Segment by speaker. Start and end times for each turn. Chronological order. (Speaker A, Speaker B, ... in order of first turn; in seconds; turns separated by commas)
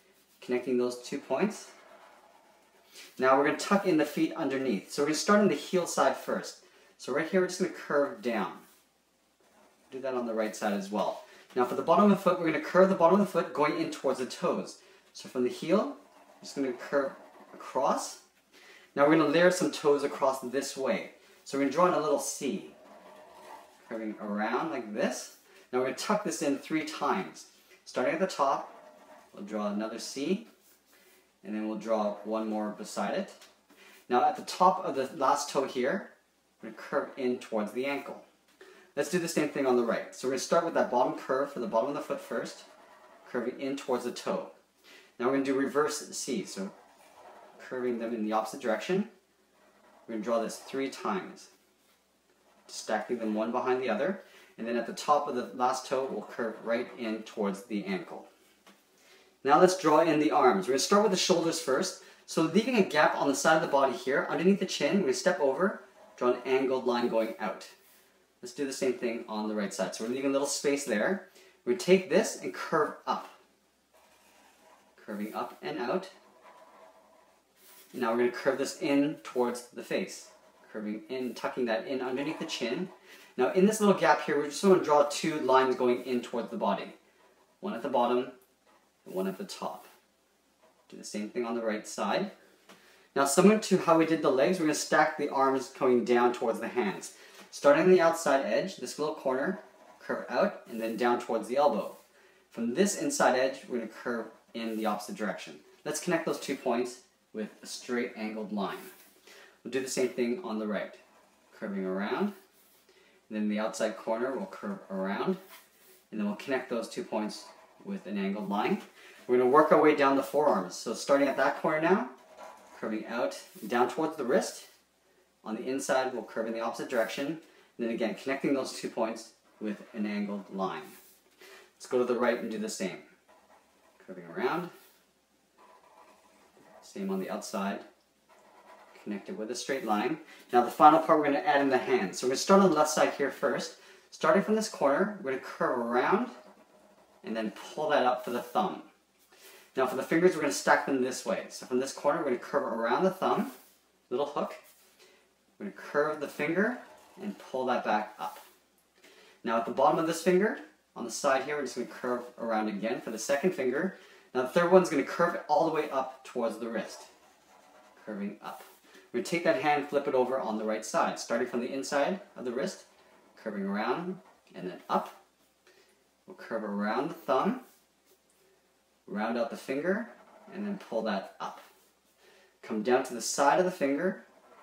Speaker A: 0.4-1.7, Speaker A: 3.2-8.6, Speaker A: 9.9-18.2, Speaker A: 18.9-22.8, Speaker A: 23.8-28.7, Speaker A: 29.3-30.5, Speaker A: 31.4-33.4, Speaker A: 34.1-36.1, Speaker A: 36.6-38.2, Speaker A: 38.9-42.7, Speaker A: 43.2-44.5, Speaker A: 45.2-46.7, Speaker A: 47.5-49.1, Speaker A: 50.1-51.5, Speaker A: 52.7-58.3, Speaker A: 59.4-67.7, Speaker A: 68.4-73.3, Speaker A: 75.0-76.1, Speaker A: 77.9-87.0, Speaker A: 87.6-88.3, Speaker A: 89.0-89.9, Speaker A: 90.9-92.3, Speaker A: 93.1-102.0, Speaker A: 102.5-108.9, Speaker A: 109.6-111.0, Speaker A: 111.5-112.3, Speaker A: 113.3-115.4, Speaker A: 116.1-122.1, Speaker A: 122.7-124.7, Speaker A: 125.4-130.9, Speaker A: 131.8-133.1, Speaker A: 134.0-134.7, Speaker A: 136.8-137.8, Speaker A: 138.9-146.3, Speaker A: 147.2-148.9, Speaker A: 149.7-153.5, Speaker A: 154.1-154.6, Speaker A: 155.6-158.4, Speaker A: 159.4-167.1, Speaker A: 168.0-175.2, Speaker A: 176.2-177.6, Speaker A: 179.1-181.6, Speaker A: 182.6-184.2